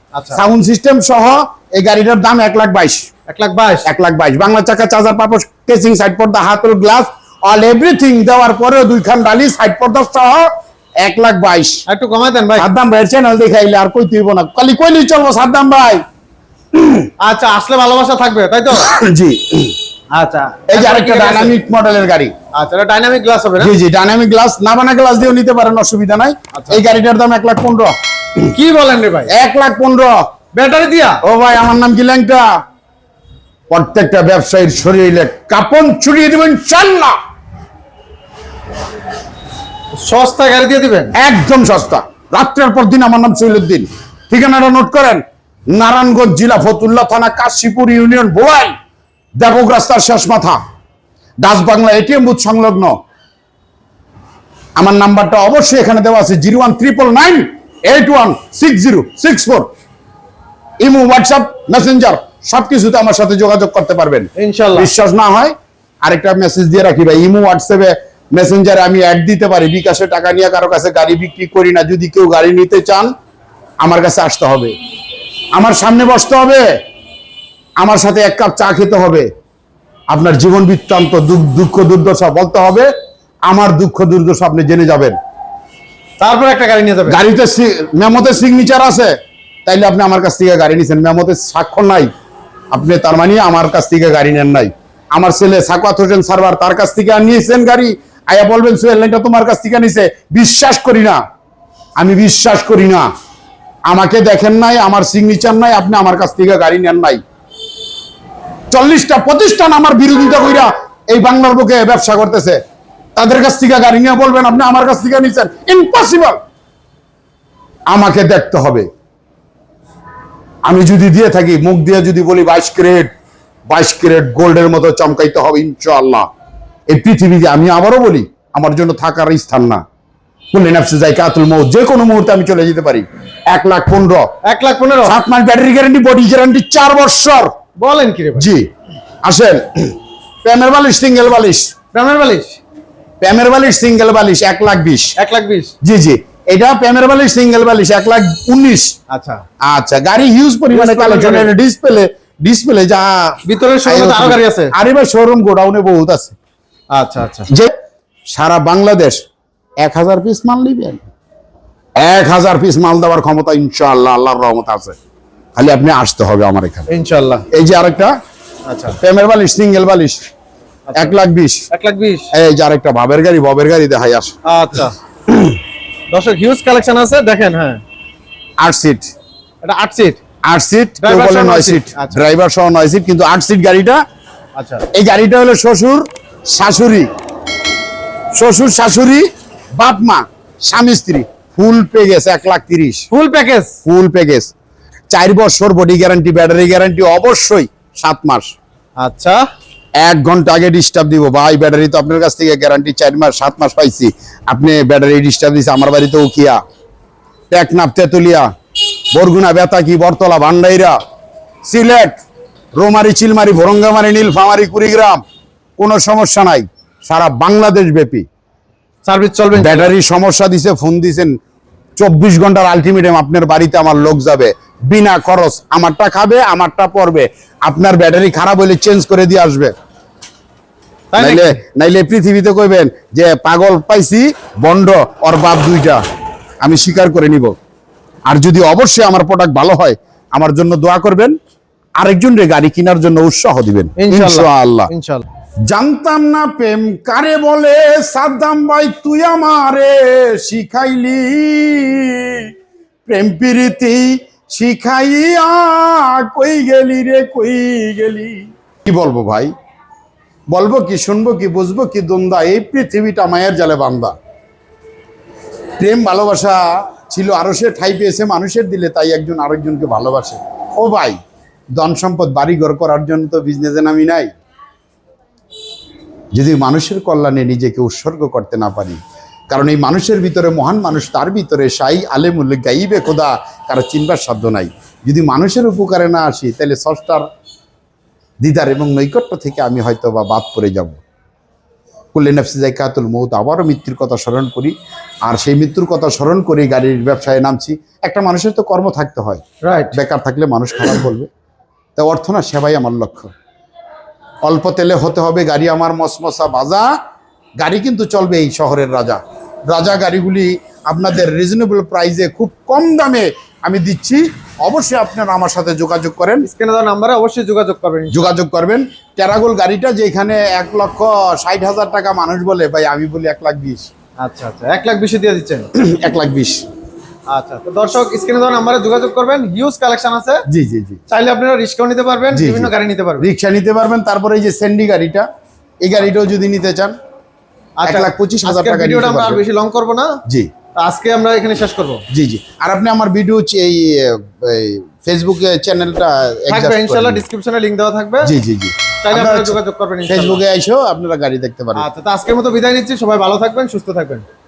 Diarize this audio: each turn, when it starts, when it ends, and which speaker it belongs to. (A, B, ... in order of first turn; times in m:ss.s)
0:00.1-0:00.4 A
0:00.3-0:03.1 B
0:03.3-0:03.9 A
0:03.8-0:10.5 B
0:11.0-0:11.8 B
0:11.9-0:12.7 A
0:12.6-0:16.0 B
0:16.7-0:17.1 B
0:17.2-0:18.9 A
0:18.7-0:19.7 B
0:20.1-0:21.5 A
0:20.7-0:22.3 B
0:22.5-0:23.7 A
0:23.6-0:27.9 B
0:28.5-0:29.3 A
0:29.3-0:30.1 B
0:30.5-0:31.2 A
0:31.2-0:32.4 B
0:33.7-0:37.1 B
0:40.0-0:41.1 A
0:41.2-0:48.7 B
0:49.4-0:50.6 B
0:51.4-0:52.9 B
0:54.8-0:59.7 B
1:00.8-1:13.1 B
1:04.4-1:04.9 A
1:13.8-1:14.7 B
1:15.5-1:16.6 B
1:17.8-1:19.3 B
1:20.1-1:22.9 B
1:23.4-1:25.2 B
1:26.2-1:27.2 A
1:27.1-1:29.1 B
1:29.6-1:32.1 B
1:32.7-1:41.2 B
1:42.0-1:43.0 B
1:43.9-1:47.2 B
1:48.7-1:52.6 B
1:53.2-1:56.4 B
1:57.9-1:58.9 B
2:00.6-2:03.1 B
2:03.7-2:06.3 B
2:06.9-2:09.8 B
2:10.5-2:14.3 B
2:14.4-2:15.2 A
2:15.0-2:17.5 B
2:17.8-2:18.5 A
2:18.4-2:18.6 B
2:19.2-2:21.7 B
2:21.9-2:22.6 A
2:23.2-2:25.1 B
2:25.2-2:25.7 A
2:25.8-2:28.9 B
2:29.1-2:29.4 A
2:29.6-2:36.4 B
2:30.7-2:31.5 A
2:33.4-2:34.7 A
2:36.9-2:37.5 A
2:38.3-2:39.2 B
2:39.8-2:41.1 B
2:42.0-2:45.0 B
2:45.6-2:46.9 B
2:46.9-2:47.4 A
2:47.5-2:48.1 B
2:48.7-2:49.0 A
2:49.0-2:50.2 B
2:50.9-2:51.2 A
2:51.0-2:51.6 B
2:51.7-2:52.3 A
2:52.3-2:54.3 B
2:54.4-2:54.9 A
2:55.3-2:55.6 B
2:56.1-2:57.8 A
2:58.6-2:59.0 B
2:59.6-3:00.2 A
3:00.5-3:04.0 B
3:01.0-3:02.2 A
3:04.6-3:04.8 A
3:04.9-3:07.1 B
3:08.3-3:13.1 B
3:13.1-3:13.8 A
3:13.8-3:14.5 B
3:15.1-3:18.5 B
3:19.0-3:19.4 A
3:20.0-3:26.6 B
3:27.5-3:28.5 B
3:29.1-3:31.0 B
3:31.6-3:32.2 B
3:32.8-3:35.2 B
3:35.8-3:38.2 B
3:39.0-3:39.9 A
3:39.5-3:41.4 B
3:42.0-3:49.7 B
3:51.1-3:51.6 A
3:51.2-3:56.0 B
3:56.6-3:57.5 B
3:58.3-4:01.3 B
4:02.0-4:04.9 B
4:04.0-4:05.2 A
4:05.7-4:12.5 B
4:13.1-4:19.5 B
4:20.5-4:24.1 B
4:25.8-4:31.2 B
4:31.8-4:34.3 B
4:36.3-4:39.0 B
4:39.5-4:47.2 B
4:48.4-4:51.0 B
4:52.1-5:01.3 B
4:59.6-5:00.0 A
5:02.0-5:03.3 B
5:04.4-5:06.9 B
5:07.6-5:16.5 B
5:16.4-5:18.3 A
5:18.1-5:23.9 B
5:24.2-5:25.7 A
5:25.7-5:26.6 B
5:27.3-5:30.4 A
5:30.5-5:31.0 B
5:31.1-5:33.2 A
5:32.3-5:35.2 B
5:35.8-5:36.9 B
5:37.8-5:40.2 A
5:37.8-5:39.4 B
5:40.8-5:42.0 A
5:42.1-5:47.2 B
5:46.5-5:48.3 A
5:48.2-5:51.9 B
5:49.0-5:50.4 A
5:51.7-5:54.2 A